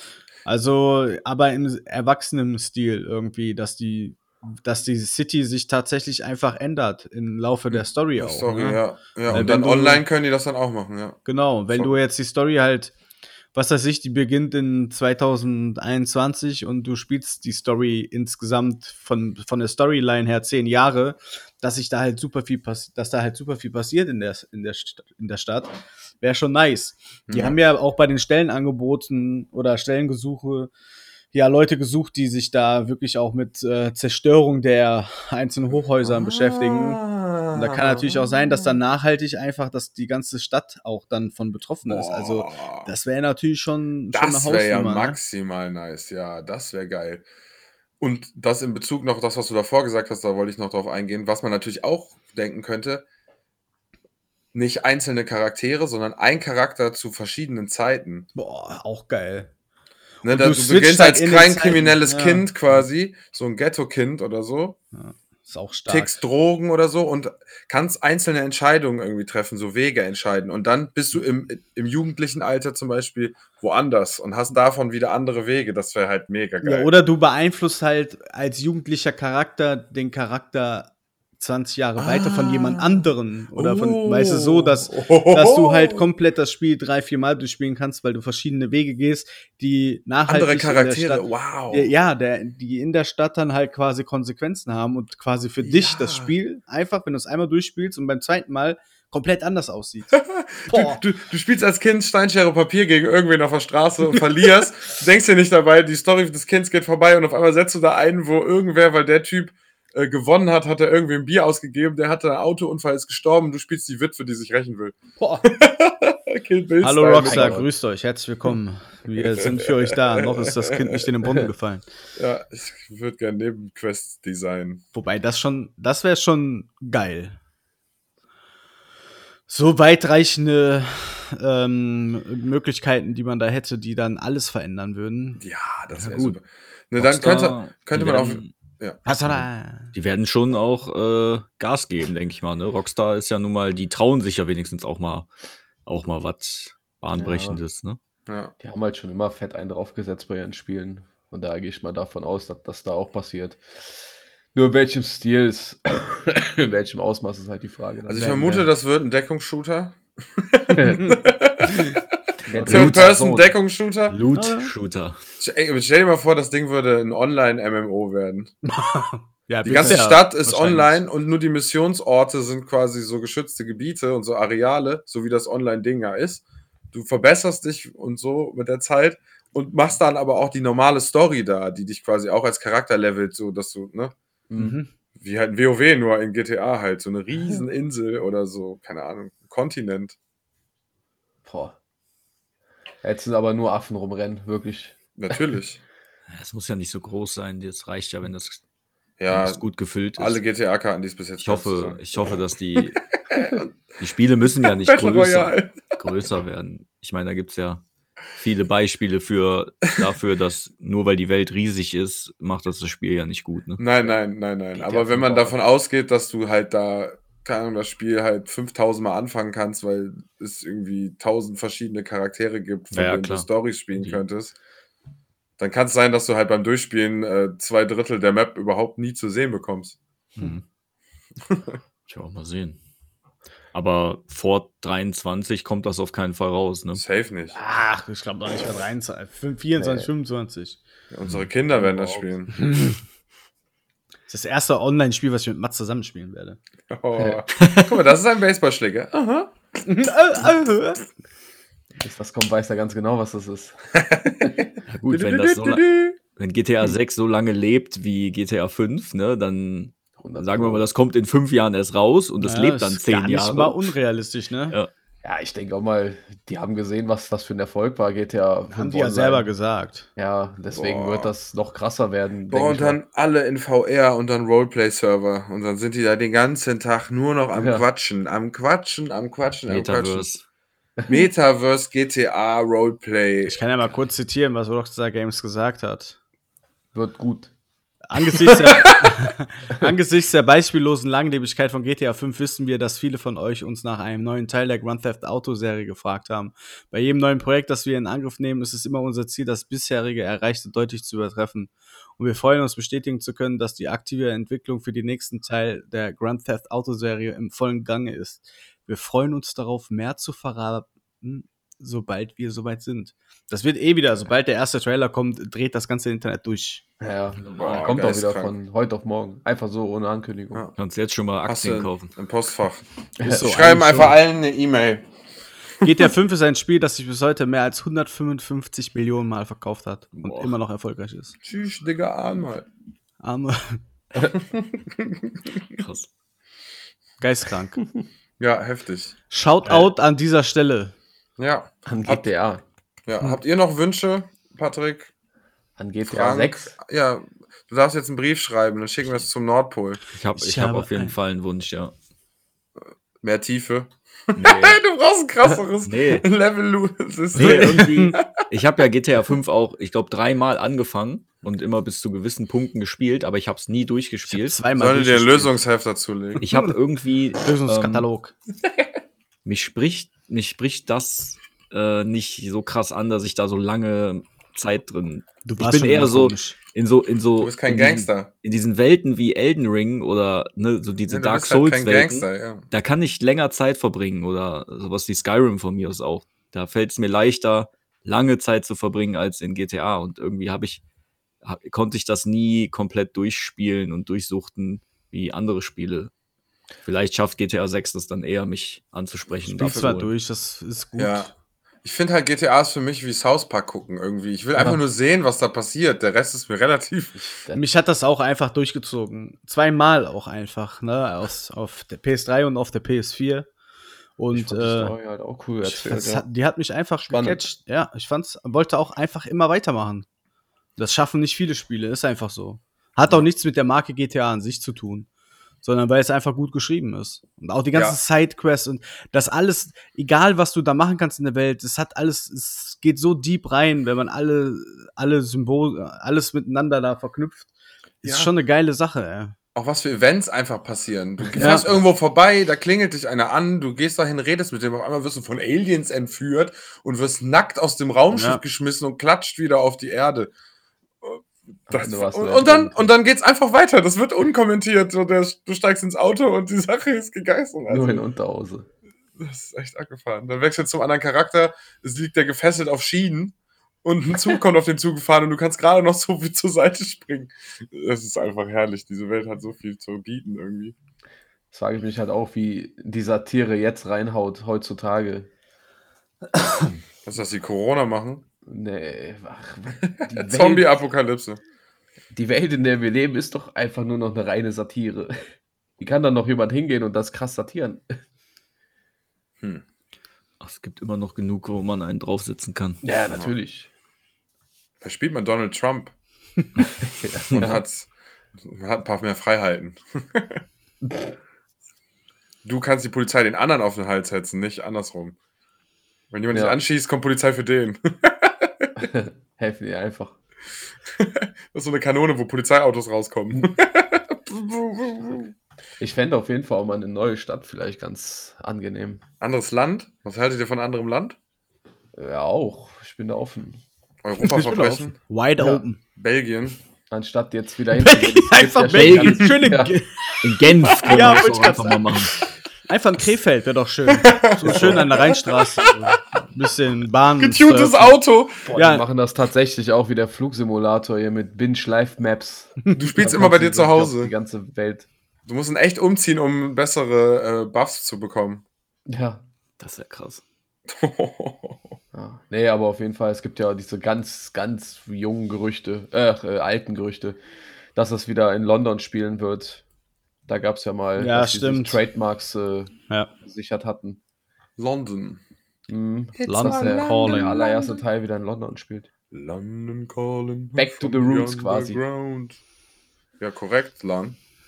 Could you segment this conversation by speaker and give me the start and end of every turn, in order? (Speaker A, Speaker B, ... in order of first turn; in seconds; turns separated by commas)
Speaker A: 0.4-10.0, Speaker B: 7.7-11.2, Speaker A: 11.2-12.9, Speaker A: 13.5-30.7, Speaker B: 27.3-27.6, Speaker A: 31.3-37.0, Speaker B: 36.0-38.8, Speaker A: 37.5-45.2, Speaker B: 41.9-42.9, Speaker B: 44.1-47.2, Speaker B: 48.0-53.1, Speaker B: 54.5-58.3, Speaker A: 58.4-59.5, Speaker A: 60.2-62.5, Speaker B: 60.2-64.8, Speaker A: 64.9-66.2, Speaker B: 65.9-76.9, Speaker A: 76.6-100.2, Speaker B: 82.0-86.0, Speaker B: 90.3-91.9, Speaker B: 95.6-96.3, Speaker B: 100.1-117.6, Speaker A: 100.7-101.0, Speaker A: 115.2-115.5, Speaker A: 116.8-121.8, Speaker C: 117.2-117.7, Speaker B: 122.2-124.8, Speaker A: 124.9-127.4, Speaker A: 129.5-135.4, Speaker B: 135.4-139.0, Speaker D: 135.9-136.4, Speaker D: 137.0-138.5, Speaker A: 139.1-139.9, Speaker D: 139.2-145.3, Speaker D: 145.8-148.0, Speaker C: 147.1-147.6, Speaker B: 148.3-148.5, Speaker C: 148.6-154.0, Speaker C: 154.5-158.7, Speaker B: 158.1-162.0, Speaker C: 160.7-161.2, Speaker C: 162.5-163.5, Speaker D: 162.6-163.1, Speaker B: 162.6-164.2, Speaker D: 164.1-165.2, Speaker A: 164.3-164.7, Speaker B: 165.4-168.5, Speaker A: 168.7-171.0, Speaker B: 169.6-184.1, Speaker C: 184.5-184.8, Speaker A: 184.6-184.9, Speaker B: 185.2-190.2, Speaker C: 191.4-191.8, Speaker C: 193.0-195.0, Speaker B: 195.2-195.8, Speaker D: 196.3-198.6, Speaker B: 199.2-199.6, Speaker D: 199.3-200.4, Speaker B: 200.2-203.7, Speaker D: 201.4-203.0, Speaker D: 204.0-207.8, Speaker B: 204.7-205.8, Speaker D: 208.3-213.8, Speaker B: 213.8-224.5, Speaker C: 214.8-215.6, Speaker D: 222.9-224.2, Speaker B: 225.6-230.0, Speaker D: 230.3-230.6, Speaker B: 231.4-231.8, Speaker D: 232.1-232.8, Speaker D: 233.7-237.0, Speaker B: 236.9-237.6, Speaker A: 237.5-240.8, Speaker C: 239.8-240.1, Speaker B: 241.1-242.6, Speaker C: 241.8-242.2, Speaker A: 242.6-243.0, Speaker A: 244.3-246.6, Speaker B: 246.9-249.5, Speaker C: 247.2-247.4, Speaker D: 247.6-248.0, Speaker A: 249.8-251.0, Speaker C: 252.0-254.6, Speaker B: 254.0-256.2, Speaker D: 254.9-263.9, Speaker C: 260.2-260.9, Speaker A: 262.4-264.8, Speaker C: 265.2-269.5, Speaker A: 268.7-270.1, Speaker C: 270.2-273.0, Speaker B: 270.7-271.3, Speaker B: 272.5-280.2, Speaker C: 277.6-277.8, Speaker D: 279.7-280.4, Speaker C: 281.0-281.3, Speaker B: 281.1-283.6, Speaker A: 283.5-286.1, Speaker C: 286.9-287.5, Speaker A: 288.1-316.8, Speaker B: 288.4-289.0, Speaker C: 317.0-320.6, Speaker D: 317.4-317.9, Speaker B: 317.6-318.5, Speaker D: 320.8-322.1, Speaker B: 321.5-325.1, Speaker C: 323.2-323.5, Speaker A: 323.2-324.1, Speaker A: 325.8-331.4, Speaker D: 330.2-330.6, Speaker B: 331.4-332.7, Speaker A: 333.2-333.8, Speaker B: 334.4-335.2, Speaker D: 335.8-336.1, Speaker A: 337.2-337.8, Speaker B: 338.4-339.1, Speaker A: 339.3-340.9, Speaker B: 341.4-342.3, Speaker C: 341.9-342.6, Speaker B: 343.1-345.1, Speaker C: 345.8-346.7, Speaker B: 346.1-350.0, Speaker D: 350.1-351.9, Speaker A: 350.4-351.1, Speaker B: 353.2-358.2, Speaker D: 354.4-354.8, Speaker D: 355.9-356.2, Speaker D: 357.4-357.9, Speaker A: 357.4-358.2, Speaker D: 358.5-364.6, Speaker A: 364.3-365.6, Speaker B: 364.7-366.4, Speaker D: 366.4-368.1, Speaker A: 366.4-366.7, Speaker A: 367.4-368.3, Speaker D: 369.4-390.8, Speaker A: 375.4-376.6, Speaker B: 377.4-378.3, Speaker B: 381.1-382.6, Speaker D: 391.4-396.1, Speaker D: 396.8-400.1, Speaker A: 399.5-401.3, Speaker B: 401.0-401.3, Speaker B: 401.8-407.3, Speaker C: 407.2-407.6, Speaker A: 407.5-413.5, Speaker A: 414.2-414.9, Speaker C: 414.3-416.2, Speaker A: 415.6-420.1, Speaker B: 417.1-417.4, Speaker A: 420.8-425.1, Speaker A: 425.6-437.5, Speaker B: 427.7-428.0, Speaker A: 438.0-439.4, Speaker B: 438.0-438.3, Speaker B: 439.5-450.3, Speaker A: 441.4-441.8, Speaker A: 448.1-448.4, Speaker B: 451.0-458.0, Speaker C: 451.7-452.9, Speaker C: 457.7-458.6, Speaker B: 459.2-470.8, Speaker C: 471.5-475.3, Speaker B: 477.0-478.2, Speaker C: 478.5-480.7, Speaker B: 480.0-481.4, Speaker C: 482.1-485.1, Speaker C: 485.8-488.0, Speaker D: 490.4-492.8, Speaker C: 492.8-493.7, Speaker B: 494.8-495.9, Speaker C: 496.8-497.6, Speaker B: 497.3-497.9, Speaker B: 498.4-500.4, Speaker B: 502.4-505.1, Speaker B: 506.1-508.7, Speaker C: 506.3-506.6, Speaker C: 508.8-510.2, Speaker B: 510.9-515.3, Speaker C: 515.8-519.0, Speaker B: 519.2-521.2, Speaker C: 521.9-523.6, Speaker B: 524.0-525.0, Speaker A: 524.2-525.8, Speaker C: 525.4-525.6, Speaker B: 525.9-526.6, Speaker C: 526.9-529.7, Speaker A: 527.8-532.1, Speaker D: 528.7-529.6, Speaker D: 530.2-532.2, Speaker A: 532.6-538.0, Speaker B: 533.9-535.9, Speaker C: 534.5-534.9, Speaker B: 537.2-538.5, Speaker C: 538.4-544.9, Speaker A: 538.5-538.9, Speaker B: 542.8-544.1, Speaker B: 545.2-548.4, Speaker C: 548.9-549.2, Speaker D: 549.6-550.2, Speaker B: 550.7-551.8, Speaker C: 551.9-557.2, Speaker C: 557.8-559.6, Speaker C: 560.3-562.7, Speaker A: 561.0-561.8, Speaker C: 563.2-564.0, Speaker B: 564.6-565.2, Speaker C: 565.7-568.9, Speaker B: 566.2-567.8, Speaker A: 566.2-567.4, Speaker B: 569.1-572.4, Speaker C: 570.6-571.8, Speaker B: 573.2-574.2